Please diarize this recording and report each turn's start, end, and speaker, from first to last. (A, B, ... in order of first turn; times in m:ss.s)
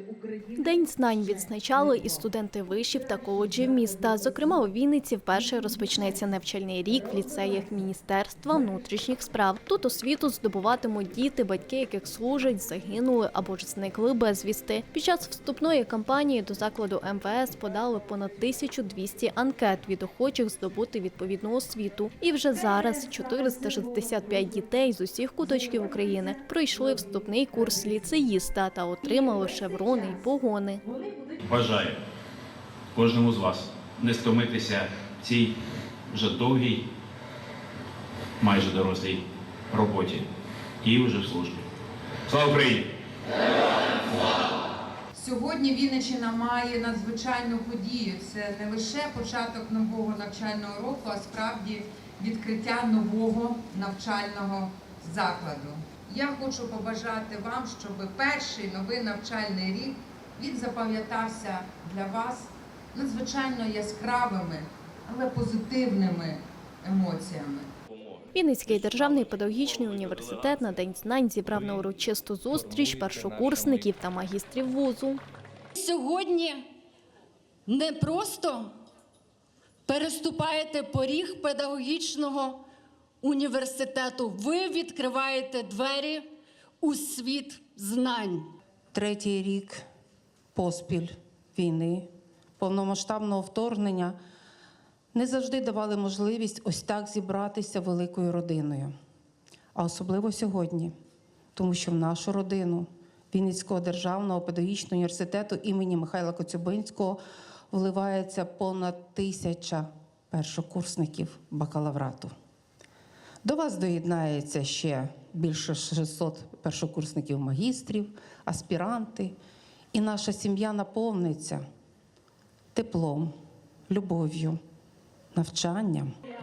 0:00.6-0:30.8 A
0:31.4-0:32.0 B
0:32.9-0:35.5 B
0:36.1-0:36.8 B
0:38.4-0:40.3 B
0:40.8-0:41.6 B
0:42.3-0:42.8 B
0:45.1-1:07.7 C
1:08.3-1:15.2 A
1:15.7-1:16.6 D
1:17.6-1:18.7 D
1:19.9-1:22.6 D
1:23.2-1:26.3 D
1:26.8-1:28.5 D
1:28.9-1:29.8 E
1:30.5-1:34.2 E
1:35.1-1:38.9 E
1:39.7-1:40.9 E
1:41.5-1:52.3 E
1:53.4-1:59.3 E
1:59.9-2:01.6 E
2:02.7-2:03.3 E
2:03.9-2:04.6 E
2:05.3-2:06.1 E